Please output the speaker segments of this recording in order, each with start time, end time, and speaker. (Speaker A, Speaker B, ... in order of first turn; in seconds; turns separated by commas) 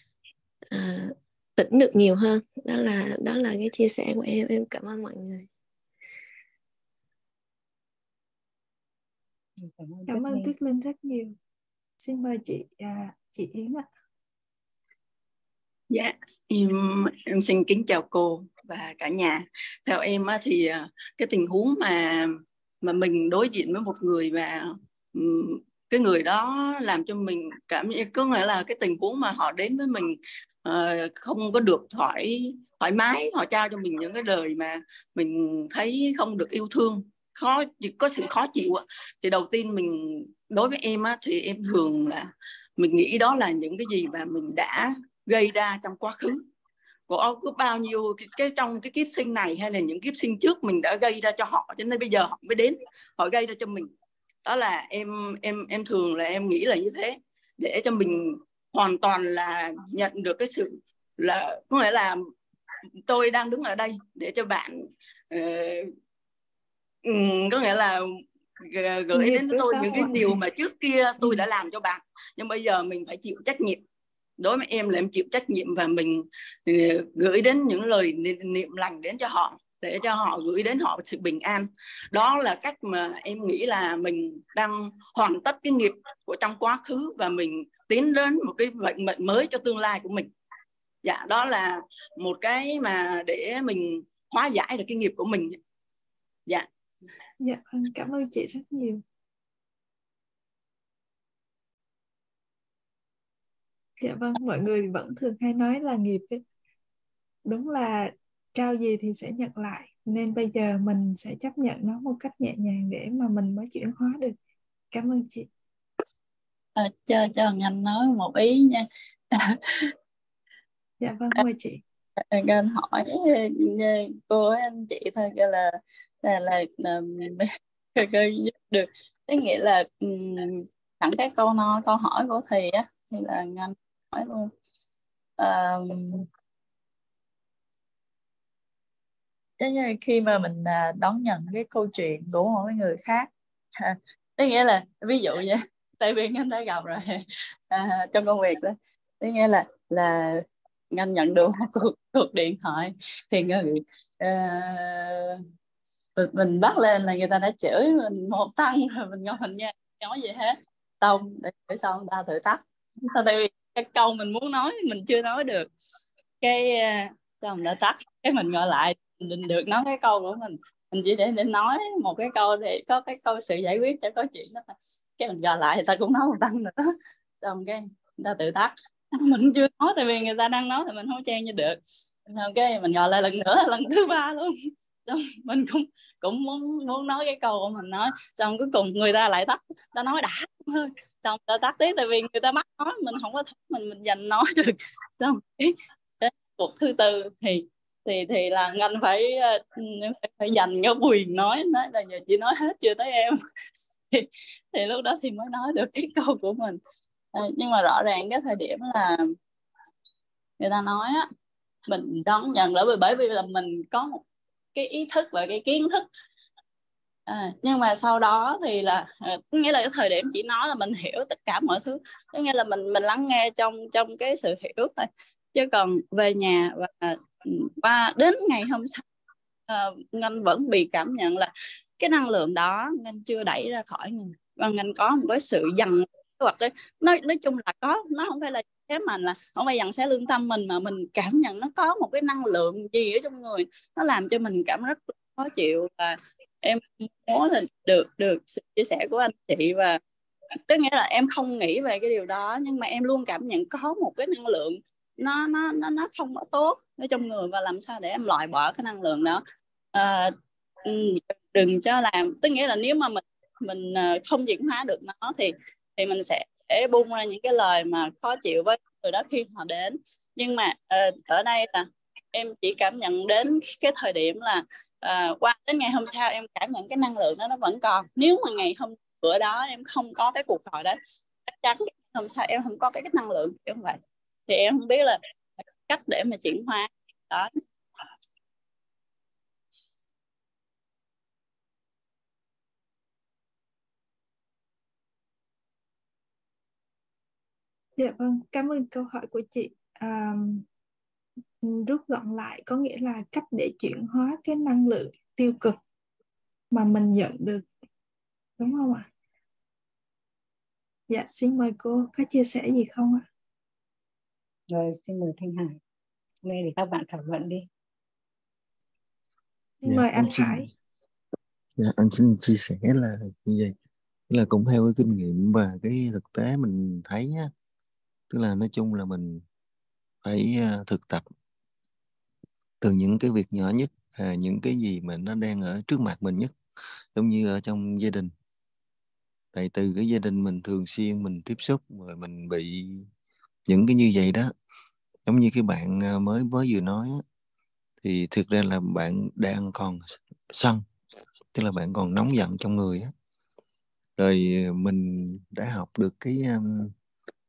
Speaker A: 0.7-5.5, Speaker B: 9.6-10.5, Speaker C: 10.1-11.3, Speaker C: 12.0-13.8, Speaker D: 15.9-22.3, Speaker D: 22.8-46.4, Speaker D: 47.1-53.9, Speaker D: 54.4-62.2, Speaker D: 63.0-64.8, Speaker D: 65.3-65.9, Speaker D: 67.0-73.8, Speaker C: 69.1-70.4, Speaker C: 71.2-71.5, Speaker D: 74.4-90.3, Speaker D: 91.0-95.6, Speaker C: 97.4-99.0, Speaker C: 104.0-106.4, Speaker C: 107.5-114.3, Speaker C: 114.9-115.5, Speaker E: 116.8-119.9, Speaker C: 121.0-121.8, Speaker E: 122.3-125.7, Speaker E: 126.2-134.5, Speaker E: 135.4-136.2, Speaker E: 139.6-155.4, Speaker E: 156.2-165.7, Speaker E: 166.4-174.6, Speaker E: 175.2-176.7, Speaker E: 177.4-184.5, Speaker E: 185.1-203.4, Speaker E: 204.1-206.8, Speaker E: 207.3-209.2, Speaker E: 210.6-211.2, Speaker E: 211.9-214.2, Speaker E: 214.7-216.0, Speaker E: 217.3-229.0, Speaker E: 229.7-250.0, Speaker E: 250.7-259.4, Speaker E: 259.9-260.3, Speaker E: 260.8-285.2, Speaker E: 285.9-287.5, Speaker C: 298.0-300.6, Speaker C: 301.6-305.8, Speaker C: 306.7-307.6, Speaker C: 308.6-309.1, Speaker C: 311.1-313.2, Speaker B: 314.7-315.8, Speaker B: 316.4-317.7, Speaker C: 319.8-320.7, Speaker F: 319.9-320.7, Speaker F: 321.8-323.7, Speaker F: 324.3-327.5, Speaker F: 328.3-329.4, Speaker F: 330.2-331.2, Speaker F: 332.8-336.5, Speaker F: 337.1-338.3, Speaker F: 339.5-343.1, Speaker F: 343.7-344.5, Speaker F: 345.2-347.2, Speaker F: 348.0-350.8, Speaker F: 351.5-353.1, Speaker F: 354.2-356.9